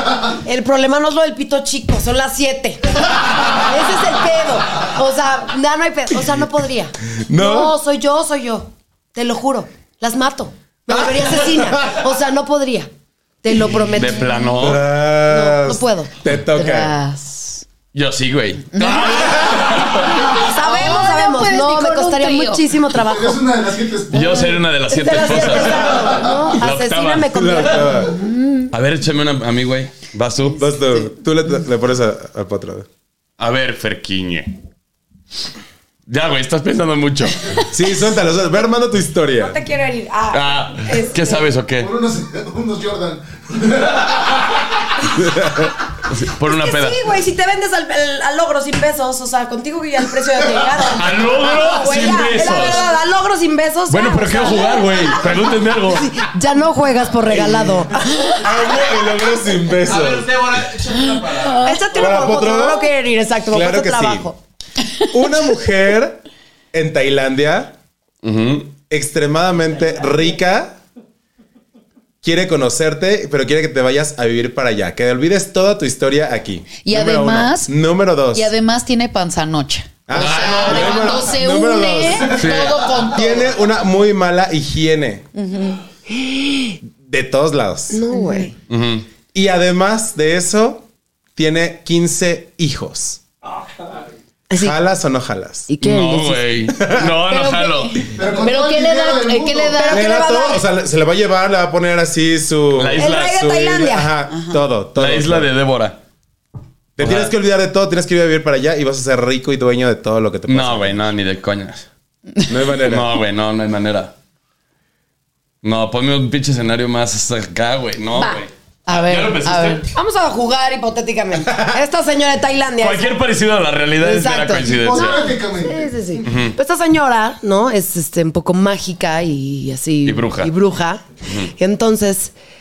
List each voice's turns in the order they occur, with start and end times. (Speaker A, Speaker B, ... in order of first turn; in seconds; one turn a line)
Speaker A: 0.4-12.9
Speaker B: 7.2-7.7
Speaker B: 10.9-12.0
Speaker A: 13.4-14.4
Speaker C: 13.8-14.8
Speaker B: 14.6-16.9
Speaker A: 15.0-16.1
Speaker D: 16.5-17.6
Speaker C: 17.9-20.3
Speaker D: 18.7-19.5
Speaker A: 20.3-23.4
Speaker D: 20.3-22.7
Speaker E: 23.0-26.5
Speaker C: 24.1-27.3
Speaker A: 24.1-28.1
Speaker B: 27.3-28.2
Speaker D: 28.1-28.7
Speaker C: 28.7-30.6
Speaker B: 30.6-32.9
Speaker C: 33.4-34.5
Speaker C: 36.1-37.6
Speaker B: 37.7-39.6
Speaker A: 39.4-41.5
Speaker C: 40.3-41.9
Speaker E: 41.8-44.6
Speaker B: 45.2-45.7
Speaker C: 46.1-47.0
Speaker A: 46.4-58.5
Speaker C: 50.9-52.9
Speaker C: 53.9-56.1
Speaker B: 57.3-57.8
Speaker B: 58.4-60.6
Speaker F: 59.8-61.9
Speaker D: 61.4-61.8
Speaker A: 61.6-64.4
Speaker B: 61.9-62.9
Speaker B: 63.5-64.3
Speaker B: 65.1-67.8
Speaker C: 68.2-68.7
Speaker B: 68.9-70.8
Speaker B: 72.2-78.5
Speaker D: 76.8-77.7
Speaker D: 78.3-83.5
Speaker B: 80.1-85.2
Speaker C: 80.1-81.1
Speaker C: 82.3-82.7
Speaker D: 85.3-85.8
Speaker A: 86.1-86.7
Speaker B: 86.8-88.0
Speaker A: 87.9-88.5
Speaker D: 88.1-88.5
Speaker C: 88.7-89.0
Speaker B: 89.3-93.2
Speaker A: 94.5-94.8
Speaker B: 94.5-95.7
Speaker A: 95.7-96.5
Speaker C: 95.8-98.1
Speaker B: 96.7-97.2
Speaker D: 97.2-100.2
Speaker E: 98.1-99.8
Speaker A: 99.7-100.6
Speaker B: 99.9-105.5
Speaker C: 102.8-103.5
Speaker A: 103.0-104.1
Speaker D: 104.3-104.6
Speaker C: 105.0-106.0
Speaker B: 107.0-111.0
Speaker C: 107.0-107.3
Speaker C: 110.5-111.8
Speaker B: 112.5-113.1
Speaker C: 112.8-114.1
Speaker C: 115.6-119.9
Speaker A: 118.1-118.4
Speaker D: 118.8-119.8
Speaker A: 119.9-123.2
Speaker C: 122.8-125.2
Speaker A: 124.0-132.3
Speaker E: 124.7-125.9
Speaker C: 126.2-126.6
Speaker C: 130.0-130.5
Speaker C: 131.2-131.5